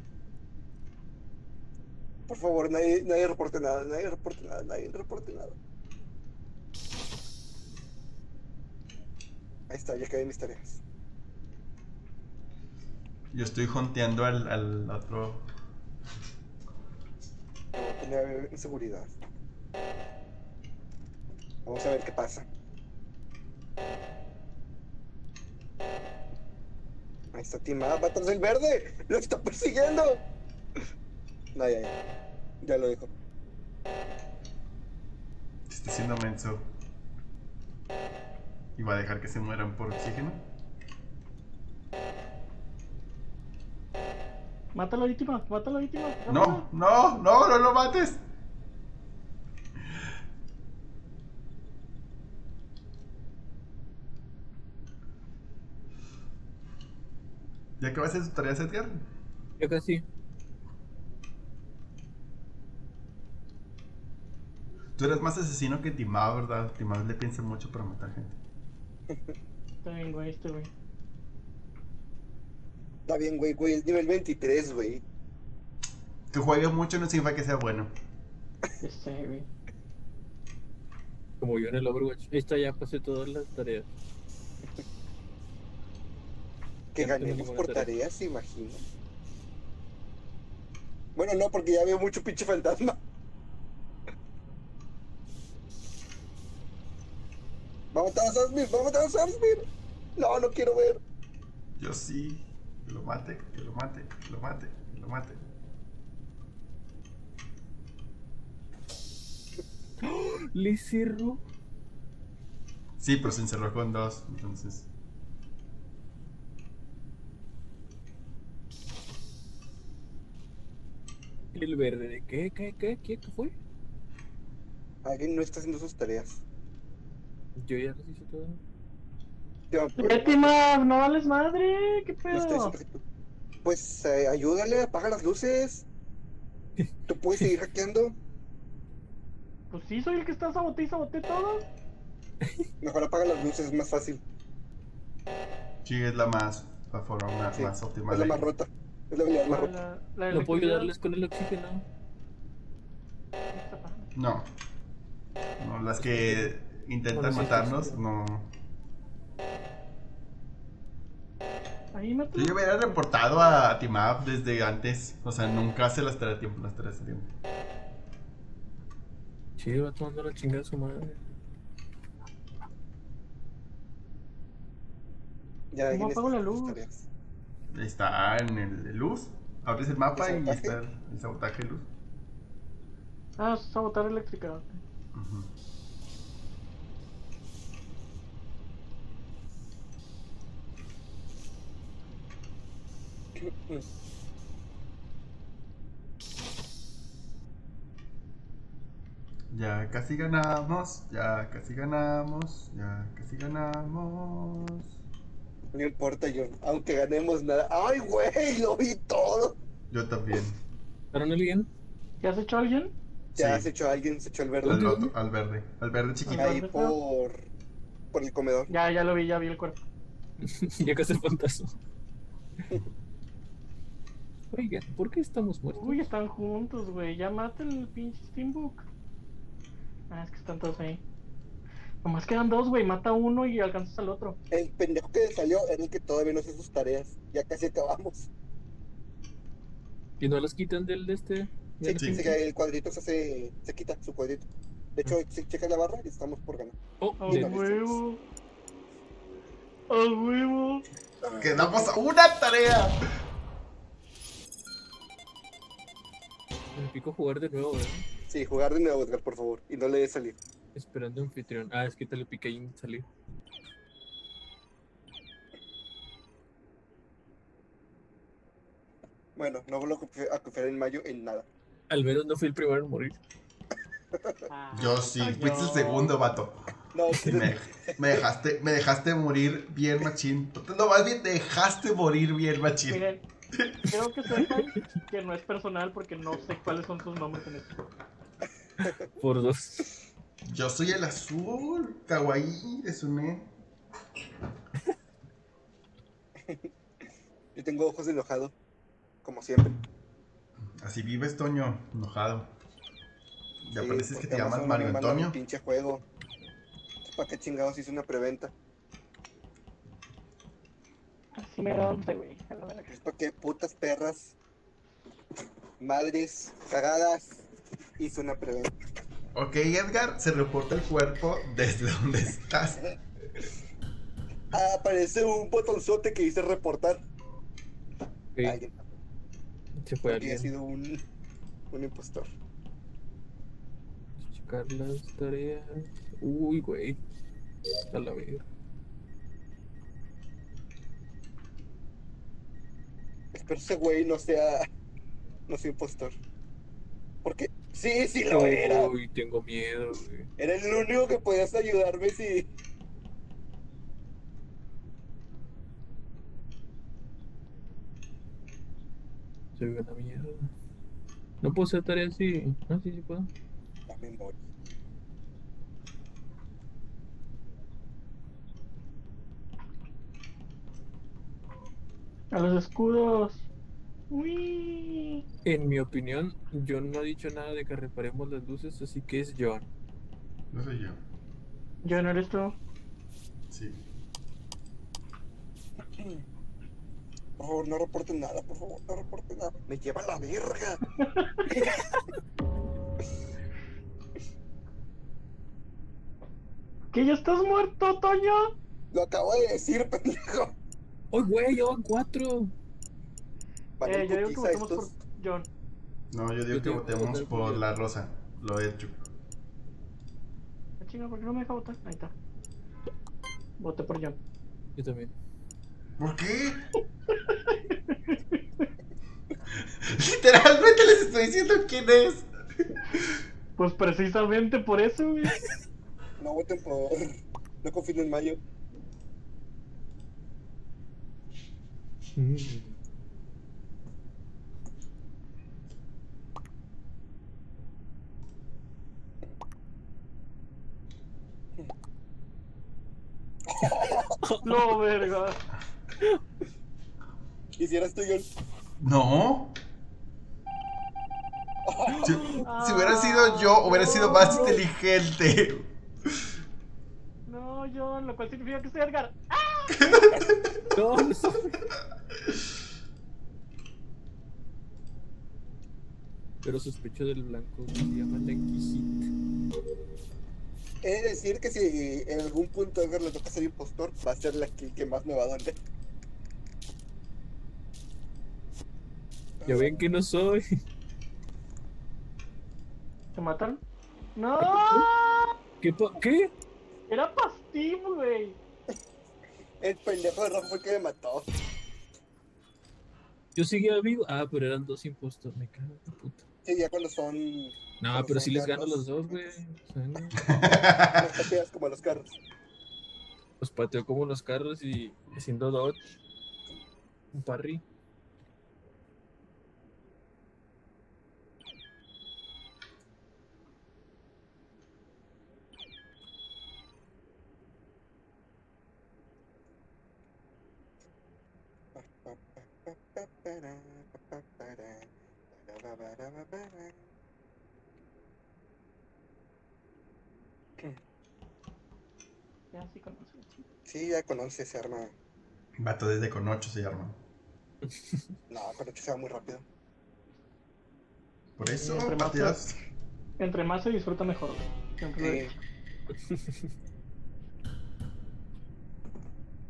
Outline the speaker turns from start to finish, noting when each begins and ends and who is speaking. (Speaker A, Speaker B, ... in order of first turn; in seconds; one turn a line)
Speaker A: 2.3-5.5
Speaker A: 9.7-10.8
Speaker B: 13.3-15.4
Speaker A: 17.7-19.1
Speaker A: 21.6-22.5
Speaker A: 27.3-30.2
Speaker A: 31.5-31.9
Speaker A: 32.6-33.1
Speaker B: 35.7-36.6
Speaker B: 38.8-40.4
Speaker C: 44.7-46.6
Speaker B: 46.3-48.2
Speaker B: 57.8-59.0
Speaker D: 59.6-60.0
Speaker B: 65.0-68.3
Speaker C: 69.8-70.7
Speaker A: 73.1-75.0
Speaker B: 76.3-77.9
Speaker C: 78.8-79.5
Speaker D: 81.4-83.9
Speaker A: 86.9-88.8
Speaker D: 87.0-87.9
Speaker A: 91.2-93.0
Speaker A: 97.9-99.6
Speaker A: 100.2-101.0
Speaker B: 101.8-105.4
Speaker D: 110.0-111.4
Speaker B: 113.0-114.9
Speaker D: 121.5-123.5
Speaker A: 125.0-126.4
Speaker D: 127.5-128.6
Speaker A: 129.7-130.5
Speaker C: 130.0-132.7
Speaker A: 132.3-133.0
Speaker A: 133.6-135.8
Speaker D: 136.8-137.5
Speaker A: 137.1-138.2
Speaker C: 139.7-141.7
Speaker A: 142.8-144.2
Speaker B: 145.8-148.4
Speaker A: 147.5-149.7
Speaker C: 149.5-150.9
Speaker D: 150.3-151.8
Speaker C: 153.5-154.1
Speaker B: 154.1-154.4
Speaker B: 155.6-158.5
Speaker D: 156.0-156.5
Speaker D: 157.1-158.0
Speaker C: 161.9-163.0
Speaker B: 162.3-167.3
Speaker D: 169.6-171.2
Speaker A: 175.7-177.1
Speaker C: 175.9-176.8
Speaker B: 177.7-181.9
Speaker A: 180.2-180.8
Speaker C: 183.4-184.8
Speaker B: 185.1-185.5
Speaker A: 193.4-193.8
Speaker B: 199.5-204.9
Speaker A: 205.7-209.6
Speaker B: 209.9-210.6
Speaker D: 211.1-211.7
Speaker C: 212.2-212.9
Speaker B: 213.3-213.7
Speaker A: 213.4-215.0
Speaker D: 214.6-215.1
Speaker B: 214.6-216.5
Speaker C: 216.2-216.9
Speaker A: 216.3-217.4
Speaker A: 218.1-218.7
Speaker C: 218.7-219.8
Speaker D: 220.4-221.8
Speaker D: 224.5-226.0
Speaker C: 225.7-228.8
Speaker C: 230.1-231.0
Speaker C: 232.0-234.4
Speaker A: 234.5-238.3
Speaker D: 240.2-242.4
Speaker A: 241.8-248.0
Speaker B: 241.9-242.3
Speaker D: 247.0-247.6
Speaker C: 247.2-248.2
Speaker C: 249.9-250.8
Speaker A: 251.2-251.9
Speaker B: 251.3-253.0
Speaker D: 256.7-258.0
Speaker A: 258.3-260.4
Speaker D: 260.7-263.1
Speaker A: 269.4-271.4
Speaker D: 271.9-273.2
Speaker A: 274.1-274.4
Speaker C: 274.5-276.1
Speaker B: 274.7-276.6
Speaker A: 276.9-278.2
Speaker D: 277.1-277.5
Speaker B: 277.2-283.8
Speaker C: 282.9-283.2
Speaker C: 283.9-287.8
Speaker D: 288.8-289.9
Speaker B: 290.4-293.5
Speaker A: 297.5-298.5
Speaker A: 299.2-299.8
Speaker B: 300.8-302.5
Speaker B: 303.6-305.4
Speaker A: 303.8-306.0
Speaker A: 307.1-308.5
Speaker C: 311.4-312.9
Speaker A: 312.9-314.4
Speaker A: 315.8-317.5
Speaker A: 318.0-318.7
Speaker B: 319.3-322.8
Speaker A: 324.5-327.0
Speaker A: 328.4-328.9
Speaker D: 329.8-330.5
Speaker A: 330.1-331.0
Speaker A: 331.7-332.3
Speaker D: 334.2-337.0
Speaker D: 337.9-338.4
Speaker A: 343.3-344.7
Speaker A: 345.5-346.1
Speaker A: 347.2-348.9
Speaker D: 348.3-350.3
Speaker A: 350.4-352.5
Speaker D: 359.6-360.5
Speaker D: 361.4-363.3
Speaker A: 363.9-364.4
Speaker C: 372.3-373.5
Speaker C: 374.1-375.2
Speaker D: 375.4-379.7
Speaker B: 380.5-381.0
Speaker C: 381.8-382.6
Speaker B: 383.5-383.8
Speaker A: 386.0-386.2
Speaker A: 387.4-390.8
Speaker C: 391.0-391.5
Speaker A: 391.5-391.9
Speaker C: 396.9-398.5
Speaker A: 398.9-400.5
Speaker D: 401.1-402.5
Speaker A: 403.8-404.9
Speaker C: 403.8-405.5
Speaker B: 406.1-409.0
Speaker D: 406.5-407.7
Speaker C: 410.8-412.1
Speaker C: 413.6-414.2
Speaker D: 414.8-415.1
Speaker B: 416.0-416.6
Speaker C: 417.2-418.7
Speaker B: 419.7-422.3
Speaker B: 422.9-423.2
Speaker C: 423.6-425.4
Speaker A: 426.2-427.0
Speaker A: 427.6-428.4
Speaker D: 432.1-432.8
Speaker A: 443.5-444.1
Speaker D: 444.2-444.6
Speaker C: 444.4-445.4
Speaker A: 447.6-448.3
Speaker B: 448.8-449.5
Speaker A: 451.6-452.4
Speaker D: 451.9-452.4
Speaker C: 451.9-454.6
Speaker B: 452.0-456.1
Speaker D: 454.1-454.5
Speaker C: 457.3-460.2
Speaker B: 459.8-460.2
Speaker D: 460.7-461.6
Speaker D: 466.4-469.1
Speaker A: 470.8-475.6
Speaker A: 479.4-479.8
Speaker D: 479.4-480.4
Speaker C: 483.1-483.6
Speaker C: 484.1-485.4
Speaker D: 484.4-484.9
Speaker D: 485.6-486.3
Speaker C: 486.9-488.4
Speaker A: 489.6-491.3
Speaker D: 493.3-496.2
Speaker A: 496.4-499.4
Speaker D: 497.8-500.2
Speaker B: 500.2-501.1
Speaker A: 501.0-502.2
Speaker D: 503.4-505.8
Speaker D: 507.1-507.6
Speaker A: 521.7-526.8
Speaker C: 532.5-533.4
Speaker A: 533.6-534.9
Speaker B: 535.6-537.0
Speaker D: 537.6-538.0
Speaker A: 538.3-539.4
Speaker B: 541.4-542.5
Speaker C: 541.4-542.4
Speaker C: 543.2-545.4
Speaker A: 545.0-545.3
Speaker D: 545.9-546.5